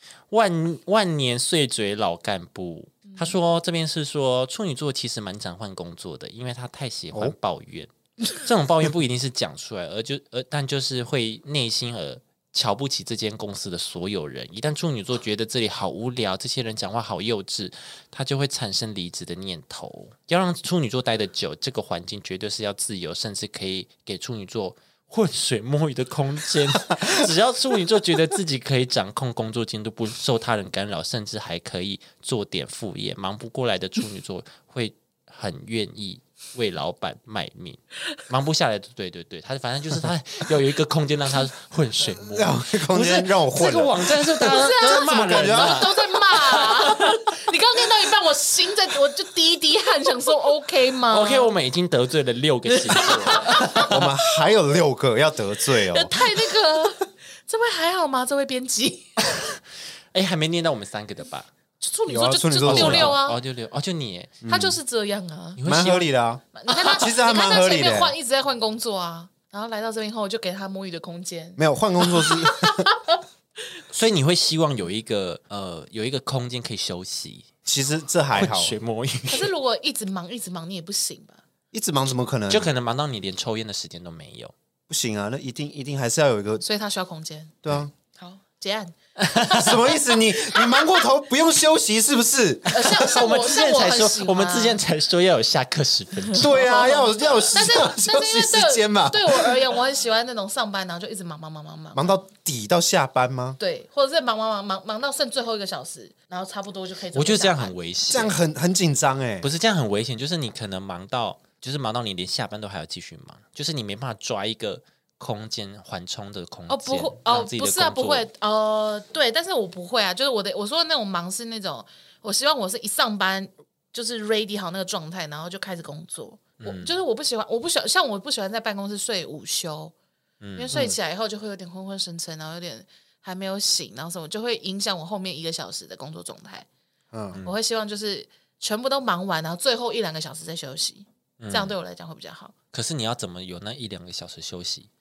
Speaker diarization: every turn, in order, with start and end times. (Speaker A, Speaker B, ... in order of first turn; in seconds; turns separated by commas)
Speaker A: 0.3-46.9, Speaker B: 3.1-3.4, Speaker C: 42.1-45.9, Speaker B: 44.4-51.5, Speaker A: 51.1-54.1, Speaker B: 52.7-53.9, Speaker C: 53.5-56.2, Speaker B: 55.7-59.4, Speaker A: 59.3-59.6, Speaker A: 60.1-61.5, Speaker B: 61.8-63.4, Speaker C: 62.1-63.2, Speaker A: 62.6-64.5, Speaker C: 64.4-64.8, Speaker B: 64.5-65.6, Speaker A: 65.6-66.1, Speaker C: 65.6-68.1, Speaker B: 66.5-73.2, Speaker C: 71.6-72.9, Speaker A: 73.9-77.5, Speaker C: 77.7-78.8, Speaker A: 78.3-79.5, Speaker B: 79.3-81.4, Speaker C: 81.7-82.7, Speaker A: 82.5-84.5, Speaker C: 84.9-86.6, Speaker B: 86.6-87.6, Speaker C: 87.6-87.9, Speaker B: 88.1-91.0, Speaker A: 89.2-89.8, Speaker C: 89.5-93.0, Speaker B: 92.7-94.8, Speaker A: 92.7-96.7, Speaker C: 96.4-99.7, Speaker B: 96.4-102.2, Speaker C: 101.9-103.6, Speaker B: 103.6-107.7, Speaker A: 107.1-108.4, Speaker C: 108.1-109.5, Speaker A: 109.4-118.3, Speaker B: 116.7-129.9, Speaker A: 126.6-127.0, Speaker A: 130.4-130.7, Speaker B: 130.6-136.7, Speaker C: 130.7-131.0, Speaker C: 137.1-137.4, Speaker B: 137.4-142.5, Speaker A: 141.4-141.8, Speaker A: 142.7-144.9